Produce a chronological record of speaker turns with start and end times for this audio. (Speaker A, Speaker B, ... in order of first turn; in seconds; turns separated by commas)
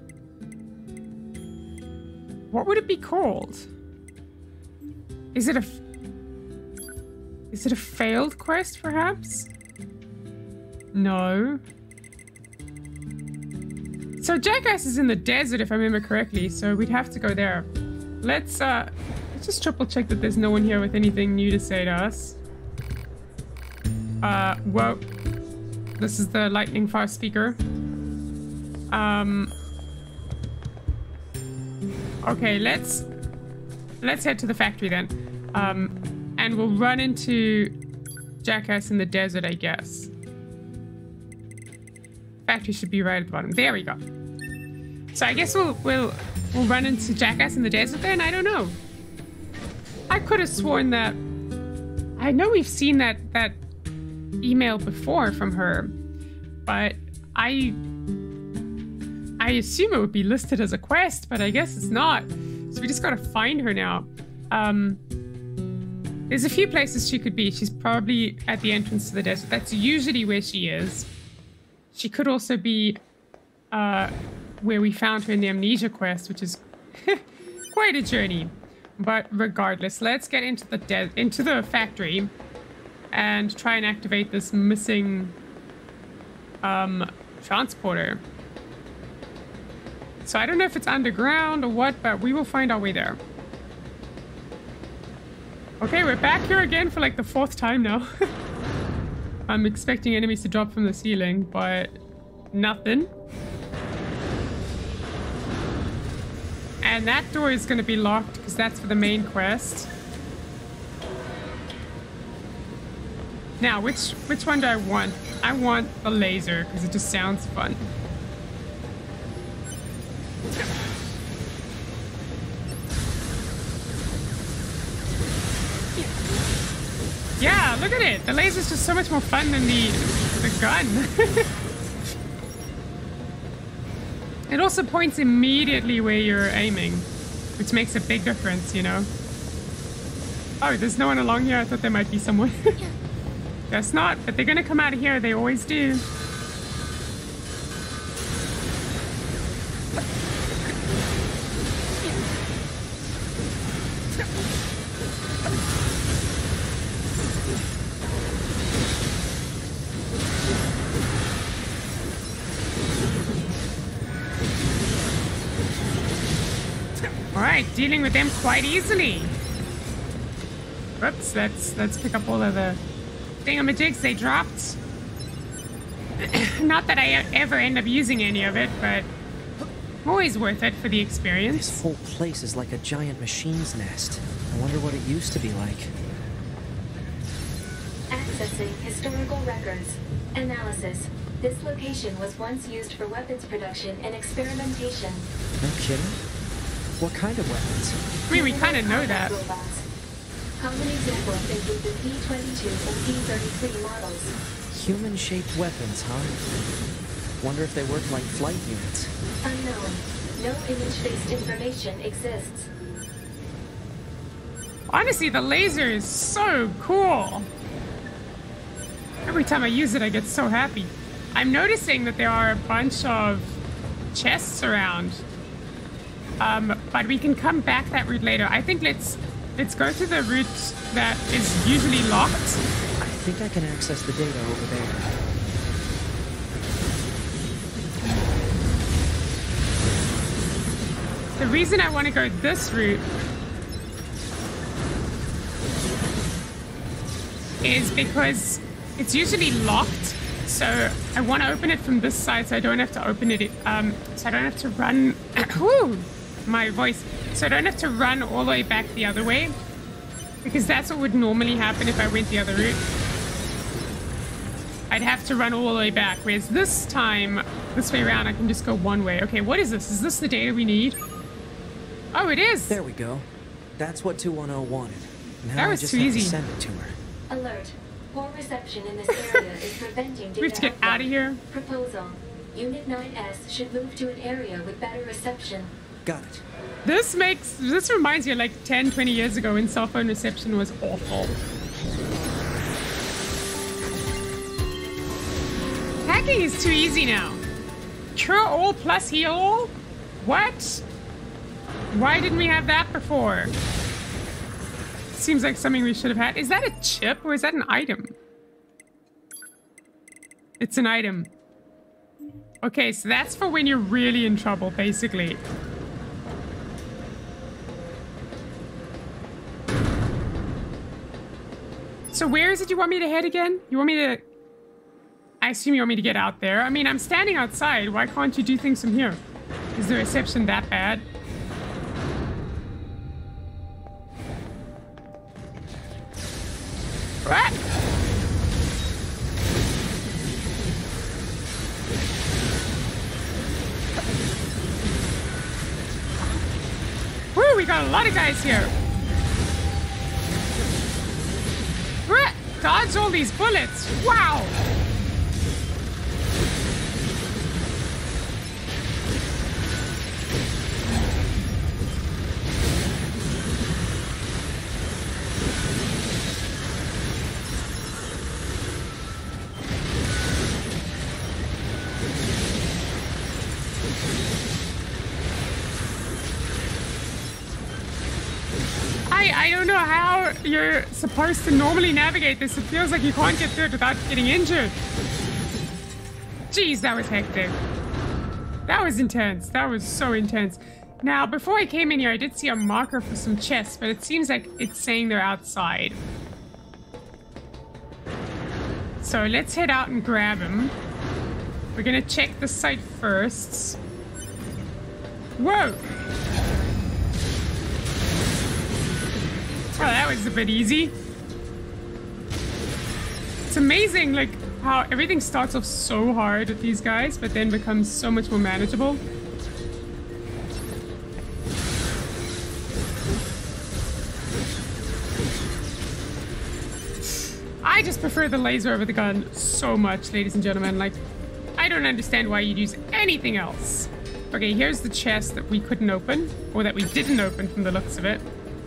Speaker A: 2.5-3.7, Speaker A: 5.3-5.8, Speaker A: 7.5-9.5, Speaker A: 10.9-11.6, Speaker A: 14.2-17.7, Speaker A: 18.2-22.4, Speaker A: 24.2-25.0, Speaker A: 26.0-27.6, Speaker A: 28.9-29.5, Speaker A: 32.2-33.1, Speaker A: 34.0-37.8, Speaker A: 38.4-40.1, Speaker A: 42.5-44.0, Speaker A: 45.1-48.8, Speaker A: 50.1-51.2, Speaker A: 52.2-53.6, Speaker A: 54.4-56.0, Speaker A: 56.7-57.8, Speaker A: 59.4-65.0, Speaker A: 66.3-71.1, Speaker A: 71.9-73.0, Speaker A: 73.7-82.3, Speaker A: 83.1-85.4, Speaker A: 86.6-88.2, Speaker A: 90.2-93.2, Speaker A: 95.8-98.3, Speaker A: 99.5-102.0, Speaker A: 102.5-103.1, Speaker A: 106.8-109.9, Speaker A: 113.6-117.9, Speaker A: 127.4-131.5, Speaker A: 134.5-139.1, Speaker A: 140.6-142.9, Speaker A: 143.7-146.1, Speaker A: 167.3-169.4, Speaker A: 171.0-172.8, Speaker A: 173.4-174.8, Speaker A: 176.2-179.1, Speaker A: 180.1-181.8, Speaker B: 181.5-185.9, Speaker C: 188.1-195.3, Speaker B: 195.6-196.2, Speaker B: 197.0-198.0, Speaker A: 198.3-199.4, Speaker C: 198.3-199.9, Speaker C: 200.6-204.4, Speaker B: 204.7-206.4, Speaker B: 207.4-209.1, Speaker C: 209.4-212.7, Speaker A: 214.9-217.5, Speaker A: 219.3-223.6, Speaker A: 224.1-225.2, Speaker A: 226.4-232.6, Speaker B: 233.0-235.1, Speaker A: 241.4-243.1, Speaker A: 247.6-259.6, Speaker A: 260.4-262.8, Speaker A: 264.9-271.0, Speaker A: 272.1-272.8, Speaker B: 272.7-276.9, Speaker A: 275.6-276.4, Speaker C: 277.3-285.8, Speaker A: 279.1-279.4, Speaker A: 280.4-281.4, Speaker B: 286.0-286.4, Speaker A: 286.9-291.4, Speaker A: 296.1-297.4, Speaker A: 298.1-300.8, Speaker A: 301.9-303.5, Speaker A: 305.1-308.1, Speaker A: 310.6-311.3, Speaker A: 312.6-315.4, Speaker A: 322.1-324.2, Speaker A: 325.4-329.2, Speaker A: 329.8-331.1, Speaker A: 337.2-337.6, Speaker A: 347.4-348.7, Speaker A: 352.1-354.6, Speaker A: 379.1-384.8, Speaker A: 386.5-387.6, Speaker A: 388.7-396.0, Speaker A: 399.0-400.8, Speaker A: 401.8-403.8, Speaker A: 405.4-405.8, Speaker A: 409.7-410.9, Speaker A: 413.5-419.0, Speaker A: 427.6-431.0, Speaker A: 431.6-438.3